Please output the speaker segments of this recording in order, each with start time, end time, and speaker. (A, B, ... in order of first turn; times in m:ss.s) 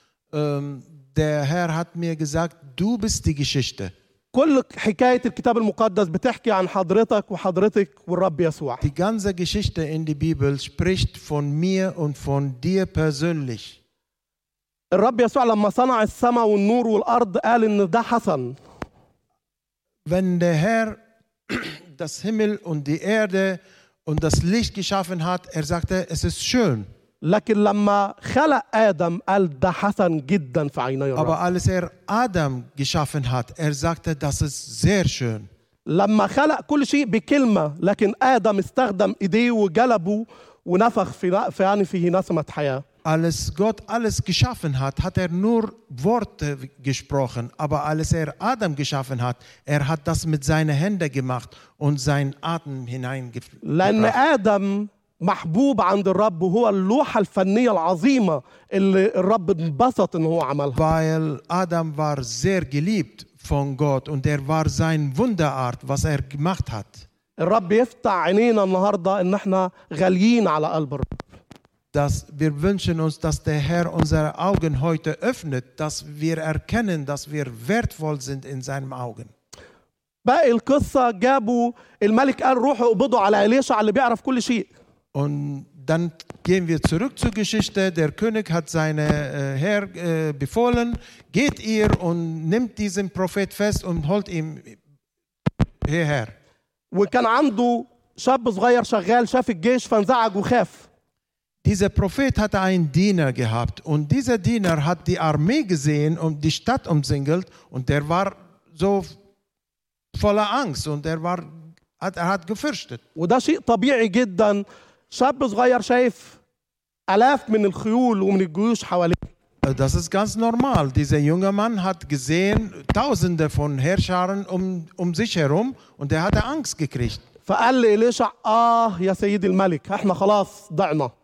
0:00.3-0:03.9 A
0:04.3-0:08.8 B
0:08.8-0:13.8 A
0:14.9-0:18.6 B
0:20.0-0:26.9 A
0:27.2-0:31.4 B
0:31.2-0:35.5 A
0:35.9-0:42.8 B
0:43.0-0:54.2 A
0:53.6-1:00.8 B
1:00.8-1:07.0 A
1:07.4-1:11.2 B
1:11.9-1:19.3 A
1:20.2-1:24.7 B
1:25.1-1:34.8 A
1:35.8-1:36.3 A
1:36.9-1:40.9 B
1:41.6-1:49.2 A
1:50.1-1:53.0 A
1:53.2-1:56.4 B
1:57.1-1:59.2 B
1:59.6-2:07.2 A
2:07.5-2:11.1 B